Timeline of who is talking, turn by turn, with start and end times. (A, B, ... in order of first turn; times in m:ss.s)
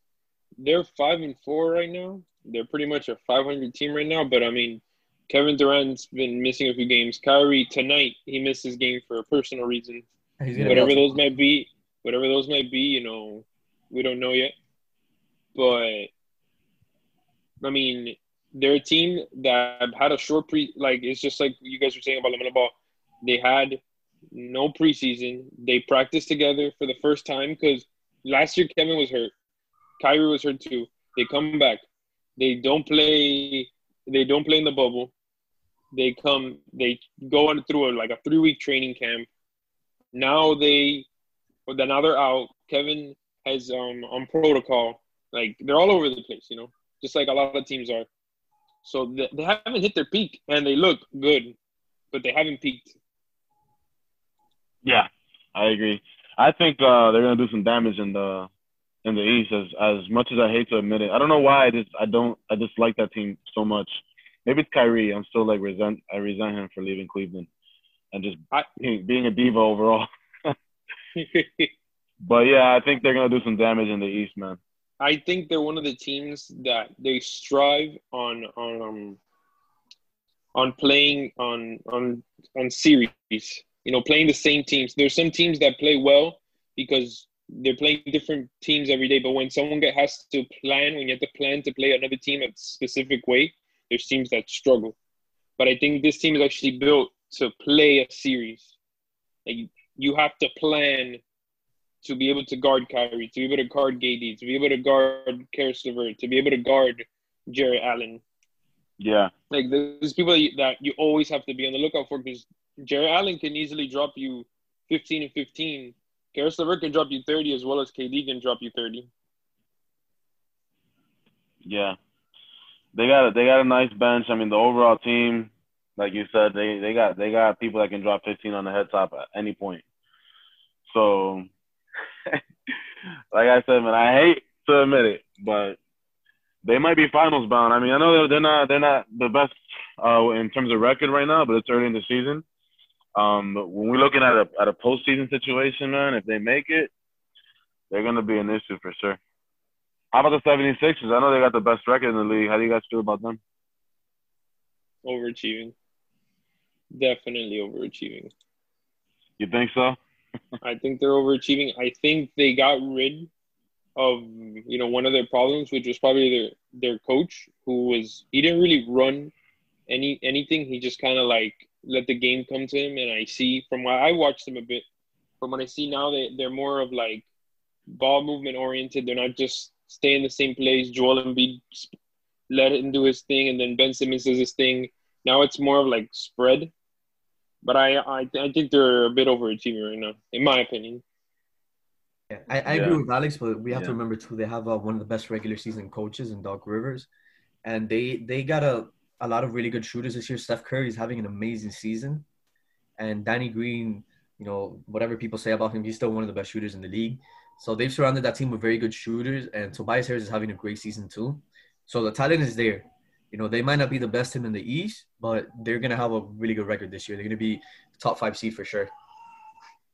0:00.6-0:10.1 A
0:10.4-0:11.2 B
0:10.6-0:10.9 C
0:10.7-0:14.5 A
0:15.6-0:16.1 A
0:17.6-0:23.8 A
0:24.3-0:29.3 A
0:30.0-0:31.8 A
0:32.4-0:35.1 A
0:35.9-0:39.3 A
0:40.1-0:41.1 A
0:41.7-0:48.1 A
0:48.8-0:51.6 A
0:52.1-0:53.0 A
0:54.8-0:58.5 C
0:59.0-1:07.5 C
1:08.1-1:10.6 C
1:11.2-1:11.7 A
1:12.2-1:14.6 C
1:15.0-1:19.2 A
1:20.6-1:35.0 A
1:35.6-1:38.7 A
1:39.4-1:41.2 A
1:42.0-1:48.2 A
1:49.0-1:49.3 C
1:49.5-1:59.1 A
2:01.6-2:02.0 C
2:02.9-2:09.8 C
2:10.9-2:11.5 C
2:13.3-2:15.8 C
2:16.6-2:22.4 C
2:23.2-2:26.9 C
2:27.9-2:29.2 C
2:30.1-2:33.4 C
2:35.0-2:35.7 A
2:36.9-2:38.3 A
2:39.4-2:40.0 C
2:40.6-2:43.3 A
2:44.0-2:49.3 A
2:49.9-2:54.8 A
2:55.4-2:57.2 A
2:57.9-3:01.9 A
3:02.5-3:06.7 A
3:07.6-3:11.0 A
3:12.3-3:17.1 B
3:12.7-3:13.0 C
3:13.7-3:14.0 C
3:17.6-3:22.2 B
3:23.0-3:38.9 B